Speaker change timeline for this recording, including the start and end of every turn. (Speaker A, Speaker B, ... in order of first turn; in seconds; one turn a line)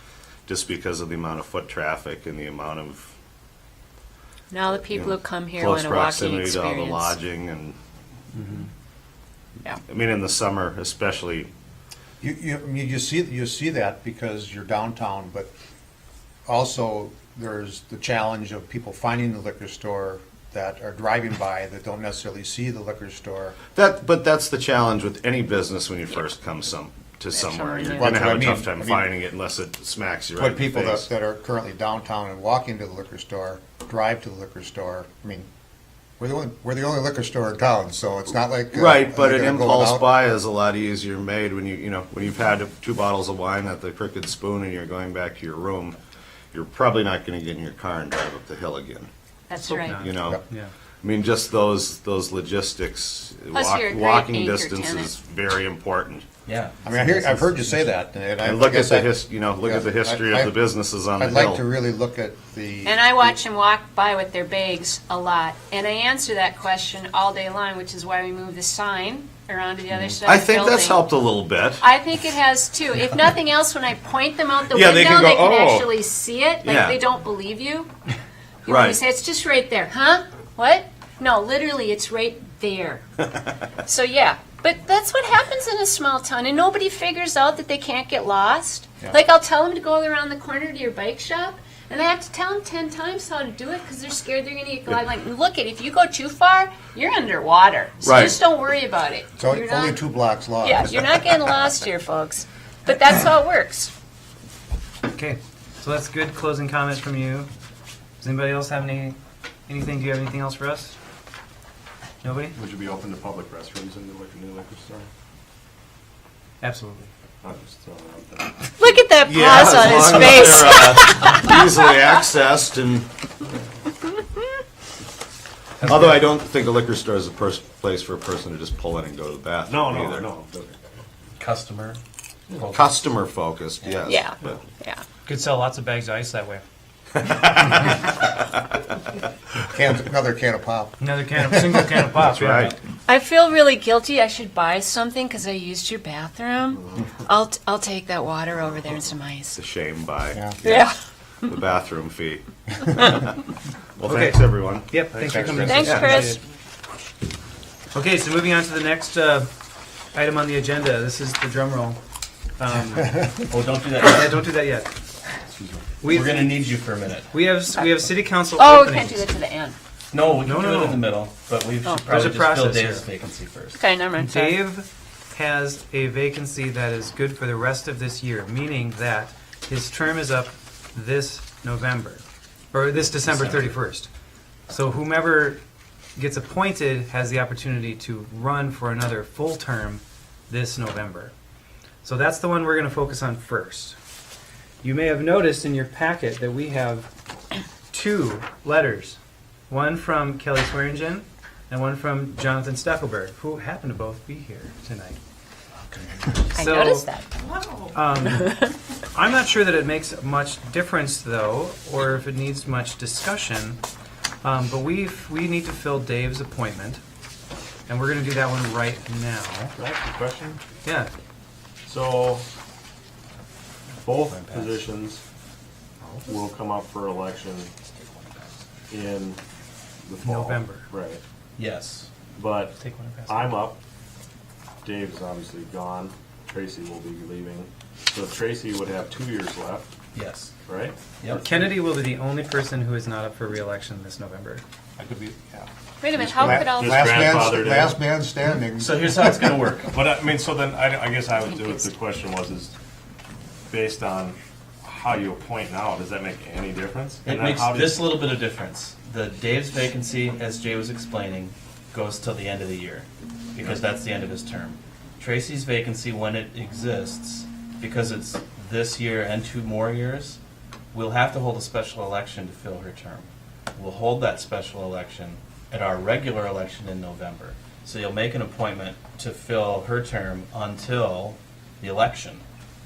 Speaker A: 0.5-3.1
Speaker B: 4.5-7.2
Speaker A: 4.9-7.8
Speaker C: 8.4-8.7
Speaker A: 9.9-11.5
Speaker D: 12.2-15.5
Speaker D: 16.4-23.6
Speaker A: 23.7-31.1
Speaker B: 27.3-28.2
Speaker D: 27.9-29.1
Speaker D: 30.4-35.5
Speaker D: 36.2-40.1
Speaker A: 38.7-46.0
Speaker A: 46.5-49.1
Speaker B: 49.5-50.0
Speaker C: 49.6-50.7
Speaker A: 49.9-50.4
Speaker A: 51.0-56.3
Speaker B: 53.5-55.1
Speaker E: 56.5-56.8
Speaker D: 56.8-60.5
Speaker A: 56.9-57.9
Speaker A: 58.4-61.6
Speaker D: 61.1-63.4
Speaker B: 62.8-71.1
Speaker A: 69.9-71.8
Speaker B: 71.8-77.9
Speaker A: 74.7-75.9
Speaker A: 76.6-77.0
Speaker B: 78.6-83.0
Speaker A: 78.7-79.0
Speaker B: 83.8-100.0
Speaker A: 98.0-98.3
Speaker D: 99.4-100.9
Speaker B: 100.6-103.9
Speaker C: 105.1-107.5
Speaker C: 108.2-110.9
Speaker C: 112.2-112.6
Speaker F: 112.5-115.1
Speaker C: 116.6-117.1
Speaker F: 117.4-118.7
Speaker B: 118.8-121.6
Speaker A: 119.2-123.1
Speaker C: 125.8-126.3
Speaker A: 125.8-130.3
Speaker F: 129.7-130.8
Speaker E: 131.4-132.0
Speaker F: 132.5-132.8
Speaker E: 132.6-132.8
Speaker A: 132.7-134.6
Speaker B: 134.0-135.0
Speaker C: 135.2-136.6
Speaker A: 137.2-138.1
Speaker D: 139.6-142.0
Speaker C: 141.0-142.8
Speaker A: 142.3-142.7
Speaker B: 143.1-149.6
Speaker A: 149.6-150.9
Speaker B: 150.6-150.9
Speaker A: 151.4-153.3
Speaker A: 154.0-156.2
Speaker C: 154.0-156.4
Speaker D: 155.2-155.8
Speaker B: 155.5-156.4
Speaker C: 157.9-159.5
Speaker C: 160.1-162.0
Speaker C: 162.6-163.4
Speaker E: 163.5-164.3
Speaker C: 164.0-164.9
Speaker F: 165.4-165.9
Speaker C: 166.0-166.7
Speaker E: 166.1-167.3
Speaker C: 167.3-169.2
Speaker B: 167.7-169.8
Speaker E: 170.1-173.8
Speaker C: 170.3-171.2
Speaker B: 171.8-172.2
Speaker C: 172.0-173.1
Speaker B: 173.7-174.7
Speaker C: 174.1-184.1
Speaker E: 183.1-183.7
Speaker C: 184.7-185.6
Speaker C: 186.2-191.3
Speaker C: 192.0-194.0
Speaker C: 194.8-197.1
Speaker C: 197.9-199.2
Speaker C: 199.7-205.2
Speaker B: 206.5-207.3
Speaker C: 206.5-207.1
Speaker C: 207.7-213.8
Speaker B: 208.4-208.7
Speaker C: 214.4-217.0
Speaker C: 217.9-219.8
Speaker F: 219.7-220.6
Speaker C: 220.8-221.1
Speaker F: 221.8-222.4
Speaker F: 224.0-225.2
Speaker E: 224.3-224.7
Speaker F: 226.2-227.7
Speaker F: 228.9-229.4
Speaker F: 230.0-231.2
Speaker C: 230.2-230.9
Speaker E: 231.6-232.1
Speaker F: 232.3-233.8
Speaker C: 232.8-233.6
Speaker F: 234.8-239.9
Speaker E: 240.1-240.5
Speaker F: 240.7-241.8
Speaker C: 241.3-244.6
Speaker D: 245.0-245.7
Speaker B: 246.0-247.5
Speaker D: 246.2-249.3
Speaker F: 246.3-248.0
Speaker E: 248.6-249.9
Speaker F: 249.9-252.7
Speaker F: 253.7-258.0
Speaker E: 257.2-270.4
Speaker E: 270.9-282.4